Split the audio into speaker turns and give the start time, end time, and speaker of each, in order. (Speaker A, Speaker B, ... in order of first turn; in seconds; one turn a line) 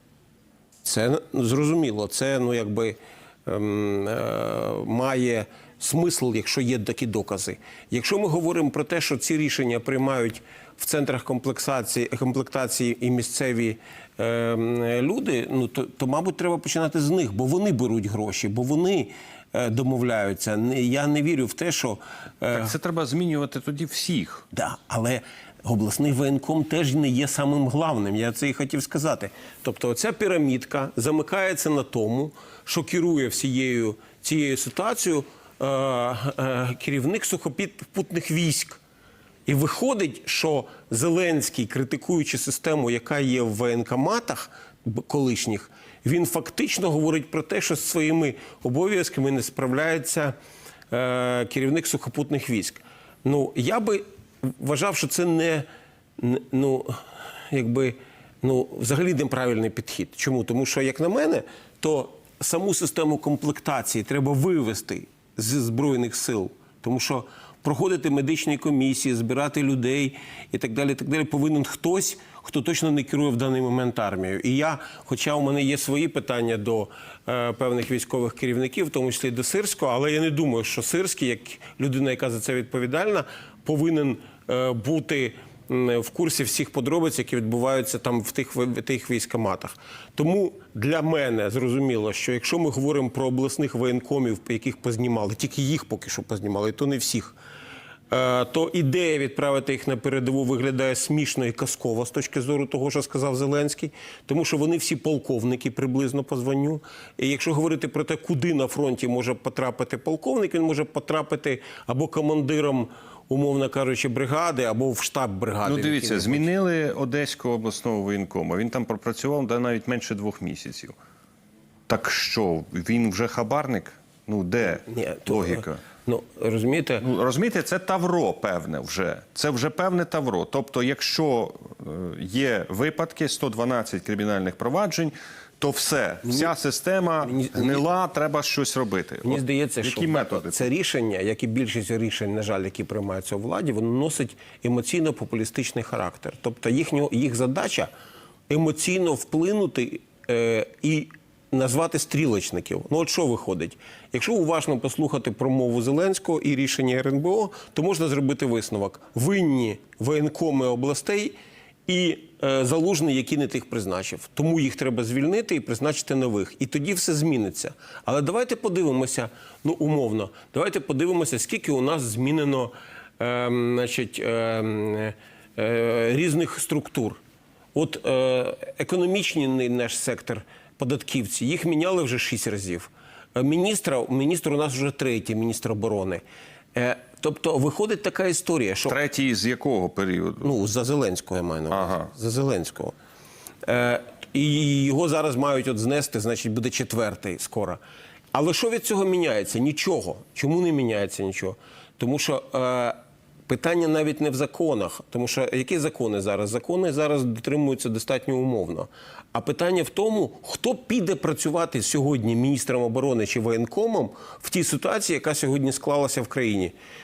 Speaker A: 0.8-22.7
Speaker B: 22.5-24.5
Speaker A: 24.5-38.8
Speaker A: 39.5-50.3
Speaker A: 50.9-55.7
Speaker A: 56.2-57.0
Speaker A: 57.5-97.4
Speaker A: 98.1-116.5
Speaker B: 115.7-121.0
Speaker B: 121.9-125.8
Speaker A: 124.7-127.0
Speaker B: 127.0-140.7
Speaker A: 136.3-136.5
Speaker A: 137.2-137.8
Speaker A: 139.2-147.9
Speaker A: 148.5-161.4
Speaker A: 161.9-177.2
Speaker A: 177.7-186.2
Speaker A: 186.8-189.0
Speaker B: 188.9-190.5
Speaker A: 190.4-193.0
Speaker B: 191.7-192.1
Speaker A: 193.7-197.8
Speaker A: 198.3-216.7